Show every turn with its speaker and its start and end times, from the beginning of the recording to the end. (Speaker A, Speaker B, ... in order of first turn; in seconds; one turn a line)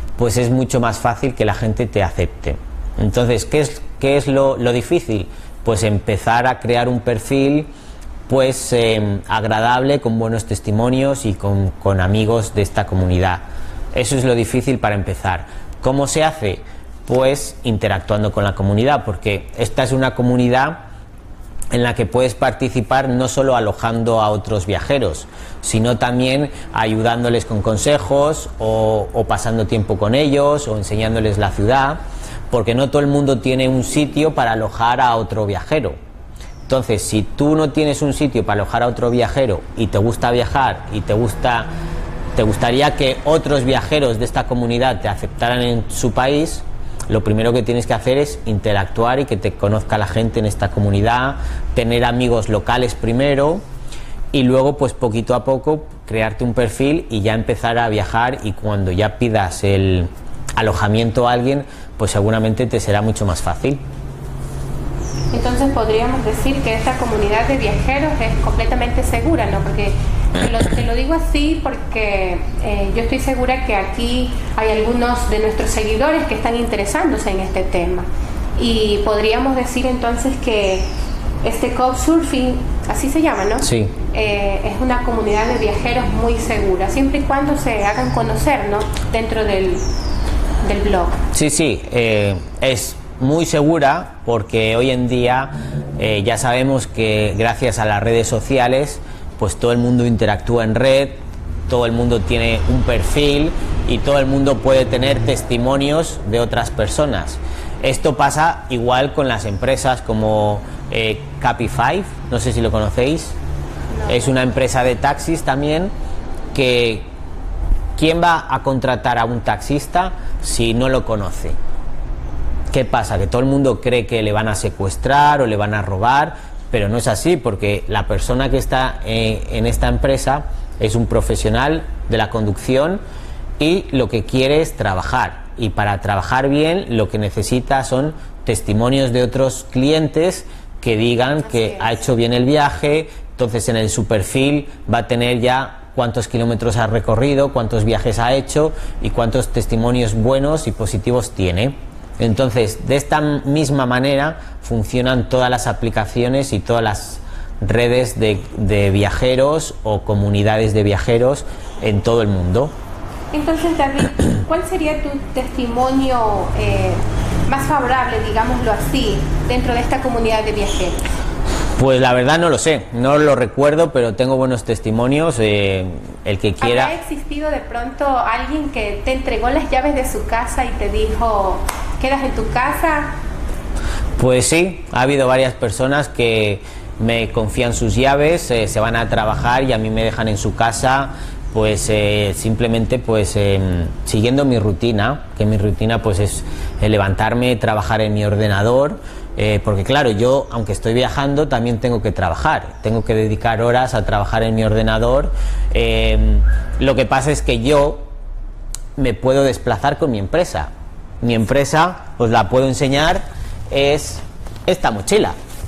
Speaker A: 0.2-7.7
Speaker A: 8.3-20.8
Speaker A: 21.7-35.9
Speaker A: 36.7-41.7
Speaker A: 42.3-53.6
Speaker A: 54.3-63.8
Speaker B: 65.3-78.0
Speaker B: 78.6-80.9
Speaker B: 81.4-89.8
Speaker A: 83.6-83.9
Speaker B: 90.6-91.2
Speaker A: 91.3-113.4
Speaker B: 113.9-114.3
Speaker A: 114.1-115.9
Speaker A: 116.5-117.1
Speaker A: 118.0-121.6
Speaker A: 122.7-133.0
Speaker A: 133.6-162.7
Speaker B: 141.6-141.9
Speaker B: 163.3-171.0
Speaker A: 171.8-176.9
Speaker B: 176.6-183.2
Speaker A: 184.2-208.1
Speaker A: 208.9-215.3